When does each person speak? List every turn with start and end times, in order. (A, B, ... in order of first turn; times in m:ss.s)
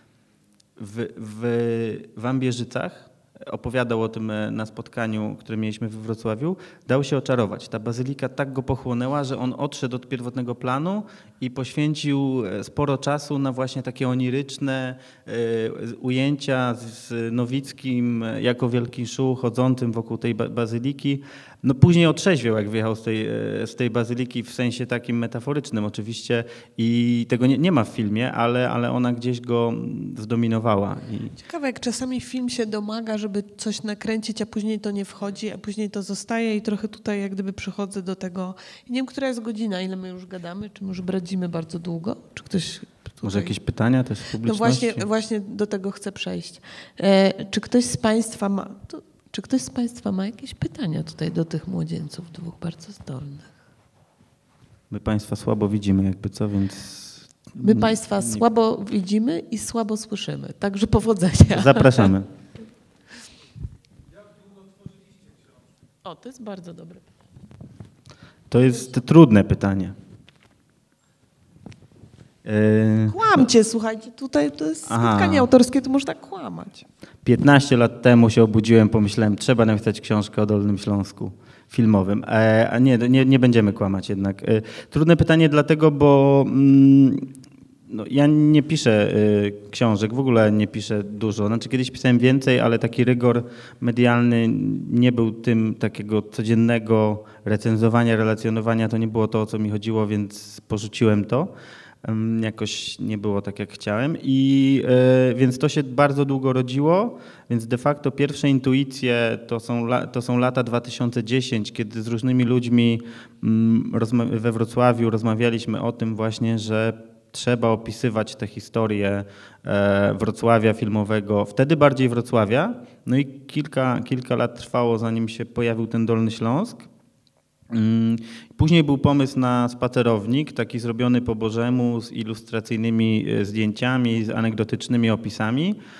0:00.8-0:31.3 A
0:31.4-0:43.6 B
0:43.2-0:45.0 A
0:44.4-0:53.5 B
0:54.9-0:58.4 A
0:57.6-1:02.1 B
1:01.5-1:02.3 A
1:06.0-1:07.1 B
1:08.5-1:10.0 A
1:12.4-1:13.5 A
1:13.1-1:16.9 B
1:14.9-1:15.5 A
1:17.2-1:27.3 A
1:27.9-2:06.9 A
2:07.7-2:15.8 A